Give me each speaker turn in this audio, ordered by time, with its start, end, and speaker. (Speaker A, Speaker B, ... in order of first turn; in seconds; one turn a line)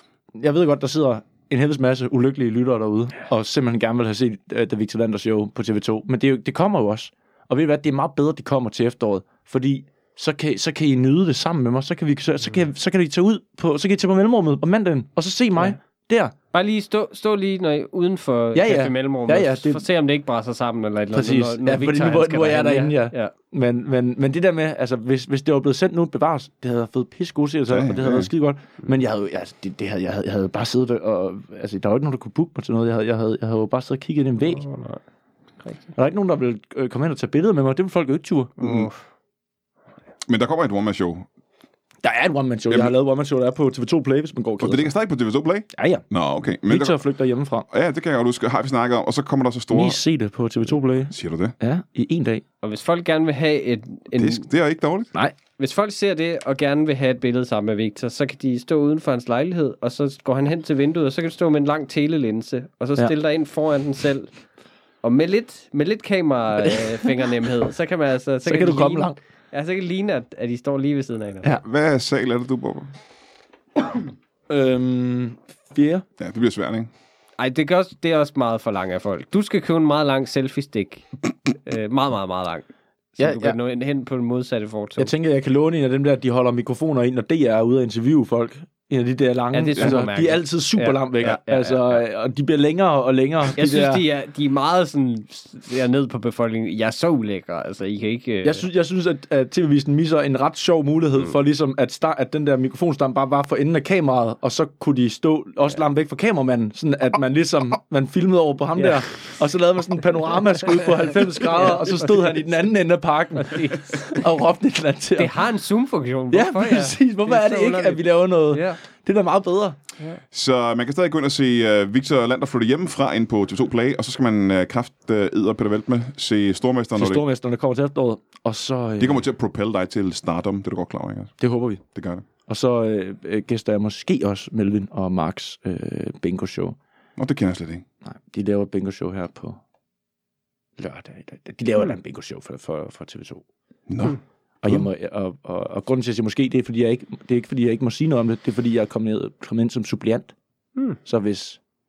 Speaker A: 0.3-16.3
Speaker B: 16.5-23.3
Speaker A: 18.5-19.8
Speaker A: 21.1-34.6
Speaker C: 27.7-28.3
Speaker B: 34.4-35.0
Speaker B: 35.6-35.9
Speaker A: 36.0-38.6
Speaker B: 38.6-39.0
Speaker C: 38.6-38.9
Speaker C: 40.3-41.3
Speaker A: 42.0-44.9
Speaker C: 42.7-42.9
Speaker C: 44.6-47.0
Speaker A: 45.7-46.0
Speaker A: 46.6-47.6
Speaker C: 47.7-50.0
Speaker A: 49.7-52.4
Speaker C: 51.1-51.5
Speaker B: 52.6-54.5
Speaker C: 54.1-55.1
Speaker B: 55.5-64.3
Speaker B: 65.0-71.5
Speaker A: 68.5-69.2
Speaker C: 71.6-72.9
Speaker A: 74.5-76.0
Speaker C: 76.2-76.9
Speaker B: 77.4-82.7
Speaker B: 83.2-85.1
Speaker A: 83.2-83.6
Speaker A: 85.0-94.0
Speaker B: 89.5-92.0
Speaker B: 93.5-98.7
Speaker A: 98.4-115.4
Speaker B: 111.5-112.5
Speaker B: 113.3-114.3
Speaker B: 115.2-118.8
Speaker A: 116.3-119.8
Speaker C: 120.3-127.2
Speaker A: 127.0-129.2
Speaker C: 129.0-131.3
Speaker A: 131.4-131.8
Speaker C: 131.9-132.2
Speaker A: 132.5-136.8
Speaker C: 137.2-137.8
Speaker A: 138.0-139.6
Speaker A: 140.8-143.4
Speaker C: 143.9-144.8
Speaker A: 144.6-150.3
Speaker A: 151.0-151.6